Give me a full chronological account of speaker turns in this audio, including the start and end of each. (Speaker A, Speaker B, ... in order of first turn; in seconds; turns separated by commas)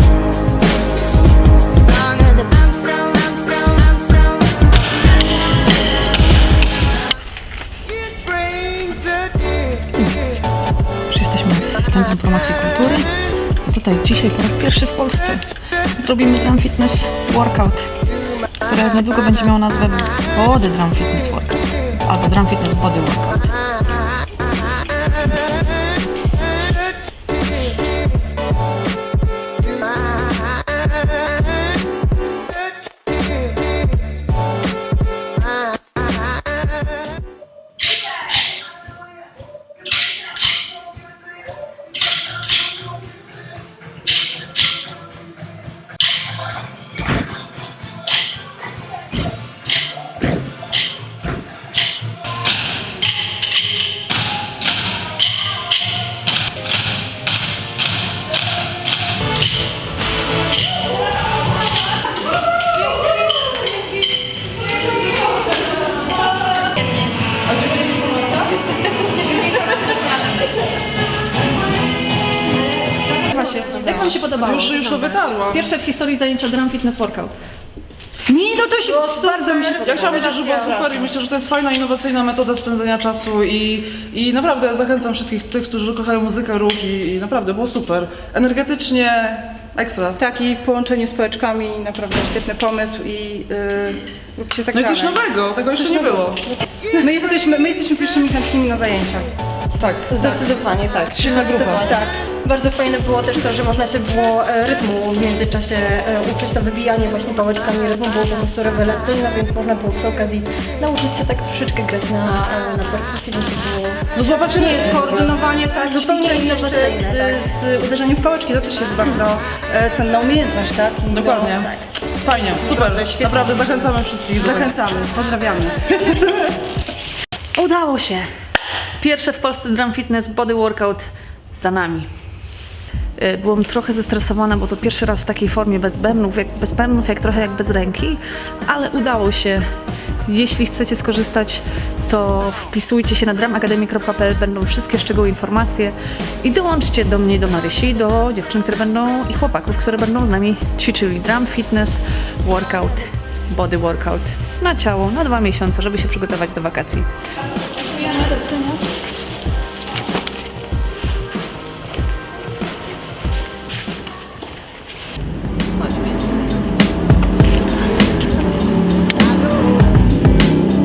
Speaker A: 11.1-13.1, Speaker A: 13.6-15.4, Speaker A: 16.0-17.9, Speaker A: 18.6-23.5, Speaker B: 67.5-68.5, Speaker A: 73.0-77.3, Speaker B: 73.8-75.7, Speaker C: 78.3-80.9, Speaker D: 78.8-81.0, Speaker B: 79.8-90.2, Speaker C: 90.2-95.2, Speaker B: 94.7-96.5, Speaker C: 95.8-96.3, Speaker C: 97.0-99.3, Speaker B: 99.8-100.3, Speaker C: 100.1-102.1, Speaker D: 100.2-114.0, Speaker B: 101.2-101.8, Speaker B: 114.1-115.3, Speaker C: 114.5-121.9, Speaker D: 115.6-117.4, Speaker B: 121.1-124.7, Speaker C: 122.5-126.5, Speaker A: 127.5-128.3, Speaker A: 129.0-132.1, Speaker A: 133.2-139.7, Speaker A: 140.2-157.1, Speaker A: 157.8-158.8